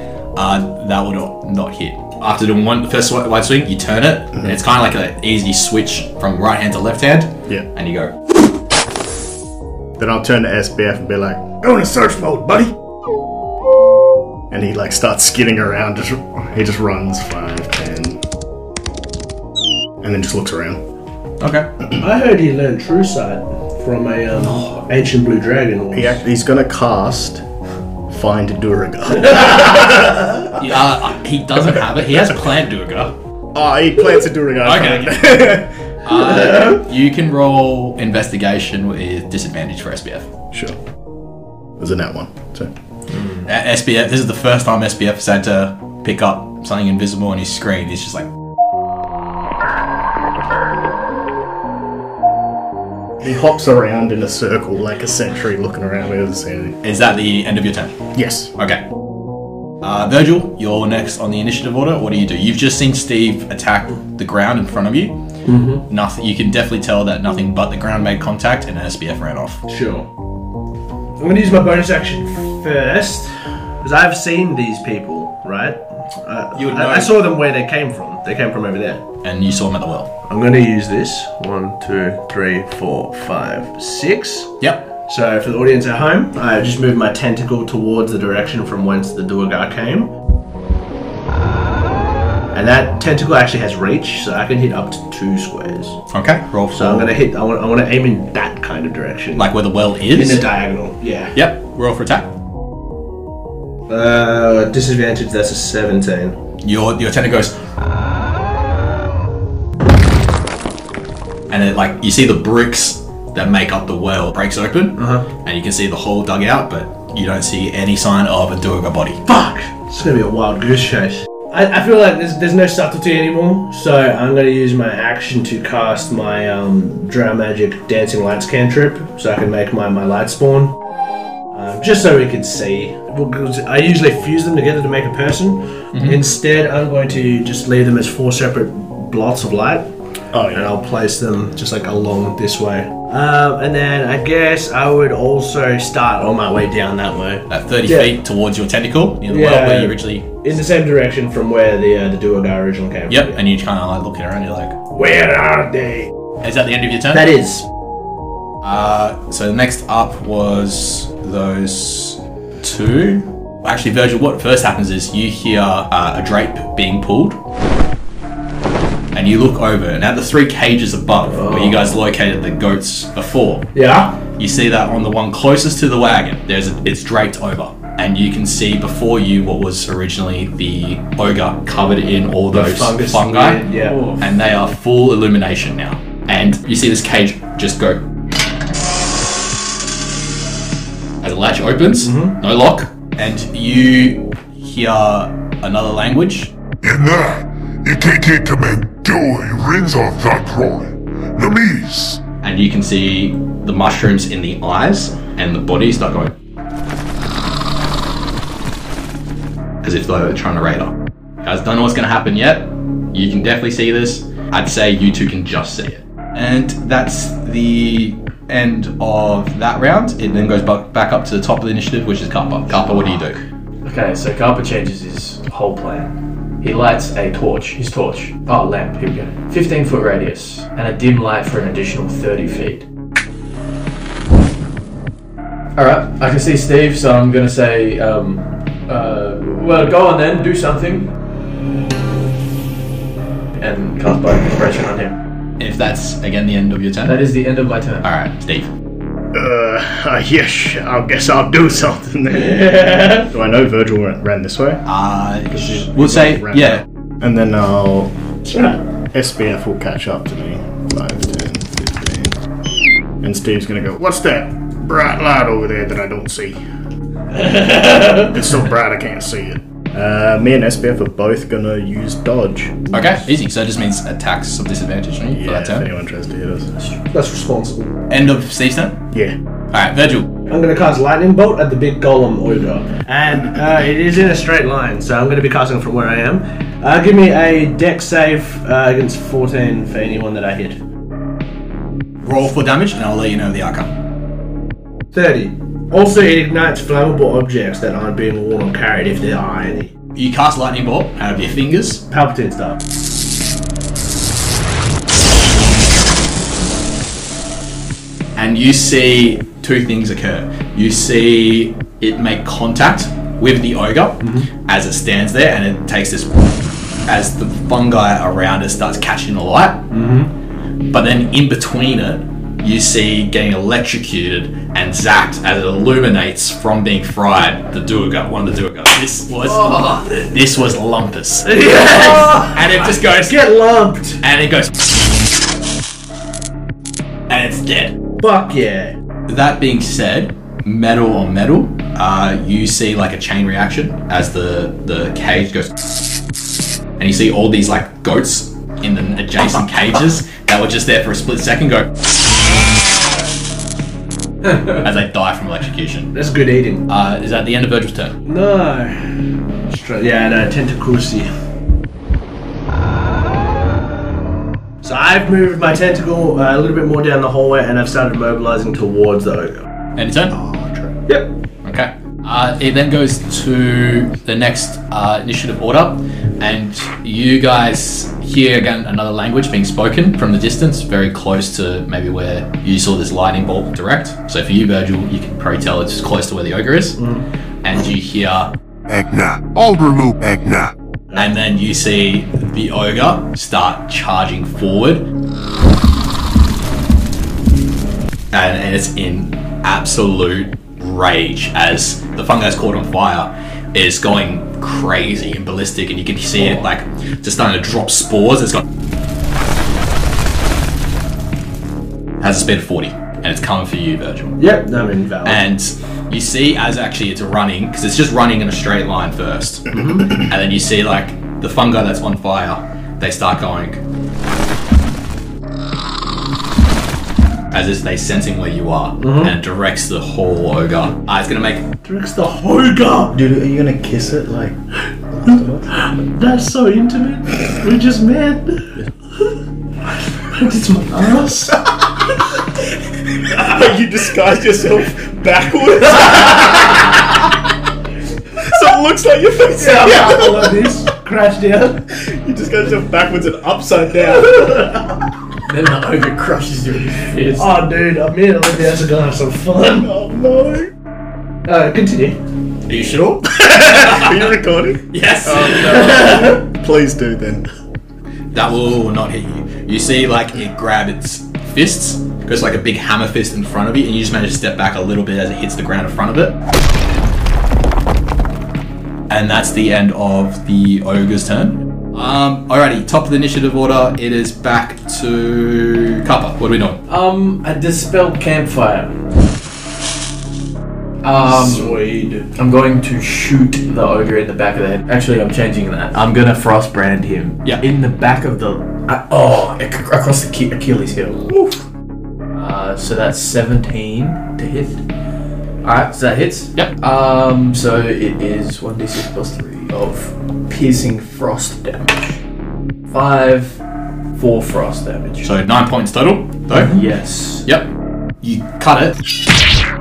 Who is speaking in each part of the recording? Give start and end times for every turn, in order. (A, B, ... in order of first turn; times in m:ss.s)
0:00.4-0:08.1 A
0:10.0-0:12.8 B
0:14.5-0:18.2 B
0:20.0-0:20.8 B
0:21.4-0:21.7 A
0:22.0-0:26.2 C
0:25.9-0:27.4 B
0:28.1-0:30.4 B
0:29.1-0:30.5 C
0:30.5-0:33.1 A
0:33.5-0:35.8 B
0:34.6-0:40.3 A
0:36.2-0:36.8 C
0:40.5-0:40.8 B
0:41.8-0:42.7 B
0:43.4-0:48.3 A
0:53.2-0:56.8 B
0:56.8-0:58.8 A
0:58.1-0:58.5 B
0:59.8-1:05.2 A
1:05.4-1:05.8 C
1:05.9-1:09.6 A
1:09.7-1:10.1 C
1:11.2-1:19.1 C
1:16.6-1:17.2 A
1:19.2-1:20.1 A
1:20.3-1:30.1 C
1:32.5-1:36.0 C
1:36.1-1:37.1 A
1:36.7-1:39.5 C
1:39.4-1:40.4 A
1:40.1-1:41.4 C
1:41.4-1:42.3 A
1:43.9-1:46.4 C
1:46.6-1:47.6 A
1:51.5-1:59.2 A
1:55.0-1:55.3 C
1:59.3-2:10.8 C
2:11.5-2:19.9 C
2:15.9-2:16.2 A
2:20.3-2:20.7 B
2:20.5-2:28.2 C
2:27.5-2:30.3 A
2:29.3-2:33.4 C
2:33.1-2:34.8 A
2:34.9-2:36.1 C
2:36.4-2:37.3 A
2:37.1-2:37.6 C
2:38.6-2:47.4 A
2:49.1-2:53.7 A
2:51.2-2:51.9 C
2:53.7-2:54.2 C
2:54.3-3:03.6 A
3:02.5-3:04.0 C
3:03.7-3:04.3 D
3:04.2-3:08.0 A
3:11.2-3:16.5 A
3:12.0-3:12.4 C
3:16.8-3:22.2 E
3:22.4-3:26.4 A
3:29.8-3:43.4 A
3:42.7-3:52.9 D
3:55.8-4:01.1 D
4:03.5-4:05.2 D
4:05.6-4:07.2 A
4:07.1-4:08.1 D
4:08.0-4:08.7 A
4:09.3-4:14.8 B
4:12.3-4:13.3 C
4:14.9-4:16.8 A
4:15.5-4:22.4 B
4:23.2-4:26.6 B
4:27.3-4:28.4 C
4:28.1-4:32.9 B
4:32.9-4:35.9 A
4:35.3-4:36.7 B
4:37.1-4:38.0 C
4:38.1-4:39.0 A
4:39.1-4:39.4 B
4:39.7-4:40.3 A
4:40.5-4:50.8 C
4:52.2-4:53.9 A
4:55.1-4:59.9 C
5:00.1-5:02.0 A
5:02.1-5:02.8 C
5:08.4-5:16.4 A
5:14.2-5:14.5 C
5:17.1-5:19.9 A
5:19.9-5:20.3 C
5:20.9-5:33.5 A
5:29.6-5:30.1 D
5:31.4-5:34.2 C
5:34.2-5:34.7 A
5:37.3-5:37.9 A
5:38.2-5:38.9 C
5:39.3-5:45.8 A
5:47.0-5:51.9 A
5:54.6-5:56.1 A
5:56.1-5:56.8 C
5:56.9-5:58.2 A
5:58.2-6:01.3 C
6:04.8-6:09.6 C
6:10.0-6:10.4 A
6:10.4-6:10.9 B
6:11.6-6:27.0 A
6:27.0-6:27.3 C
6:27.6-6:28.5 A
6:28.9-6:30.7 E
6:31.1-6:35.1 A
6:38.3-6:48.6 A
6:52.2-6:54.4 A
6:54.4-6:55.4 C
6:55.2-7:03.8 A
6:59.7-7:00.2 C
7:07.5-7:11.7 A
7:09.0-7:09.3 C
7:11.8-7:13.2 C
7:13.1-7:14.6 B
7:15.1-7:15.7 B
7:15.7-7:18.7 C
7:19.9-7:21.7 C
7:23.2-7:27.0 B
7:23.3-7:23.6 C
7:25.9-7:26.7 C
7:28.4-7:30.6 B
7:29.6-7:31.8 C
7:31.9-7:34.7 B
7:34.2-7:34.9 C
7:35.4-7:37.6 D
7:37.4-7:39.9 C
7:39.8-7:40.7 B
7:41.4-7:42.2 C
7:42.7-7:44.2 A
7:43.3-7:47.4 B
7:44.9-7:46.2 A
7:45.5-7:46.4 C
7:48.3-7:56.4 A
7:59.1-8:06.8 A
8:06.9-8:09.0 D
8:11.0-8:11.8 D
8:11.2-8:12.3 C
8:12.4-8:21.3 D
8:22.3-8:24.8 D
8:25.6-8:32.2 D
8:32.9-8:33.6 D
8:34.1-8:35.3 D
8:35.2-8:36.8 A
8:36.5-8:37.5 D
8:37.4-8:37.7 A
8:38.2-8:39.0 A